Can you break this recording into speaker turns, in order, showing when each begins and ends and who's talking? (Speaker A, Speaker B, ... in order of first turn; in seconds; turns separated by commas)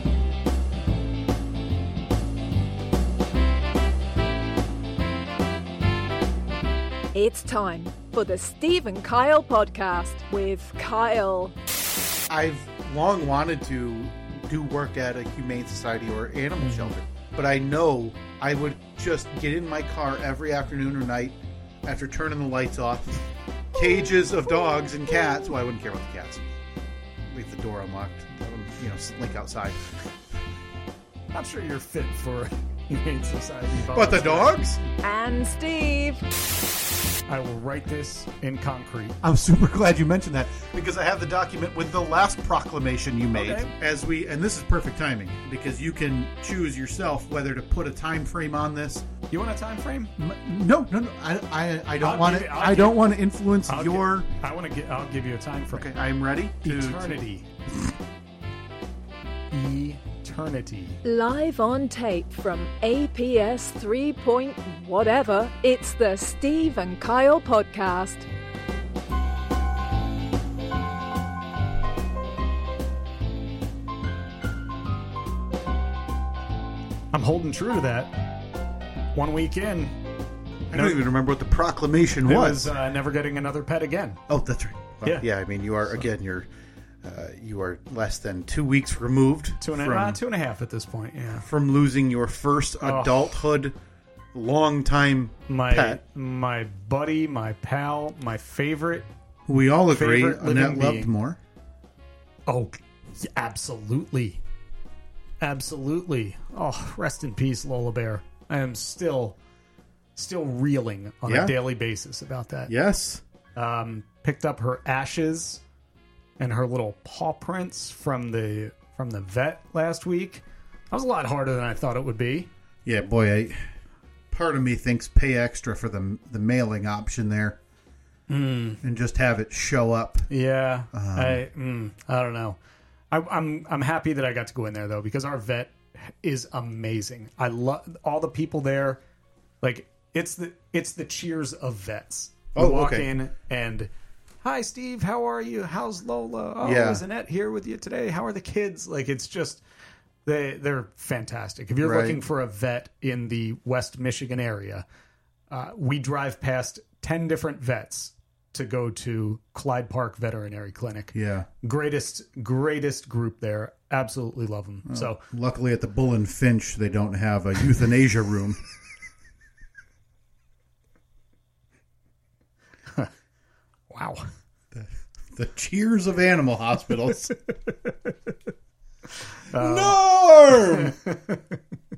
Speaker A: 7.1-11.5, Speaker B: 12.3-23.1, Speaker C: 16.6-16.9, Speaker B: 23.7-26.5, Speaker B: 27.3-29.9, Speaker C: 31.3-34.5, Speaker B: 33.9-34.8, Speaker A: 35.0-36.2, Speaker C: 37.3-39.2, Speaker B: 39.2-49.0, Speaker C: 43.3-43.7, Speaker C: 49.3-50.1, Speaker B: 50.2-54.3, Speaker C: 52.0-53.1, Speaker C: 53.6-55.9, Speaker B: 55.7-57.2, Speaker C: 56.6-57.5, Speaker C: 59.5-61.0, Speaker A: 61.0-68.3, Speaker C: 77.1-78.2, Speaker C: 79.1-80.0, Speaker B: 80.7-82.7, Speaker C: 80.7-81.0, Speaker C: 82.2-84.2, Speaker B: 84.3-86.5, Speaker B: 87.0-90.2, Speaker C: 89.6-91.5, Speaker B: 91.4-93.7, Speaker C: 92.8-93.2, Speaker B: 94.3-96.0, Speaker C: 95.5-99.1, Speaker B: 99.5-101.4, Speaker C: 99.9-101.1, Speaker C: 102.5-104.4, Speaker C: 105.4-109.4, Speaker C: 110.2-112.7, Speaker B: 111.2-111.5, Speaker B: 112.7-113.2, Speaker C: 113.5-115.6, Speaker C: 116.4-122.5, Speaker B: 122.8-123.6, Speaker B: 124.3-127.6, Speaker C: 128.3-128.8, Speaker B: 128.8-130.3, Speaker C: 130.3-132.6, Speaker B: 130.9-131.4, Speaker C: 133.1-139.0, Speaker C: 139.6-143.9, Speaker B: 142.5-143.1, Speaker C: 144.4-149.6, Speaker B: 146.6-147.0, Speaker C: 150.2-154.8, Speaker B: 151.8-152.2, Speaker C: 155.5-165.2, Speaker B: 161.1-161.5, Speaker B: 164.9-168.6, Speaker C: 173.9-174.3, Speaker B: 174.7-177.3, Speaker C: 179.5-180.0, Speaker B: 179.5-180.9, Speaker C: 180.6-181.4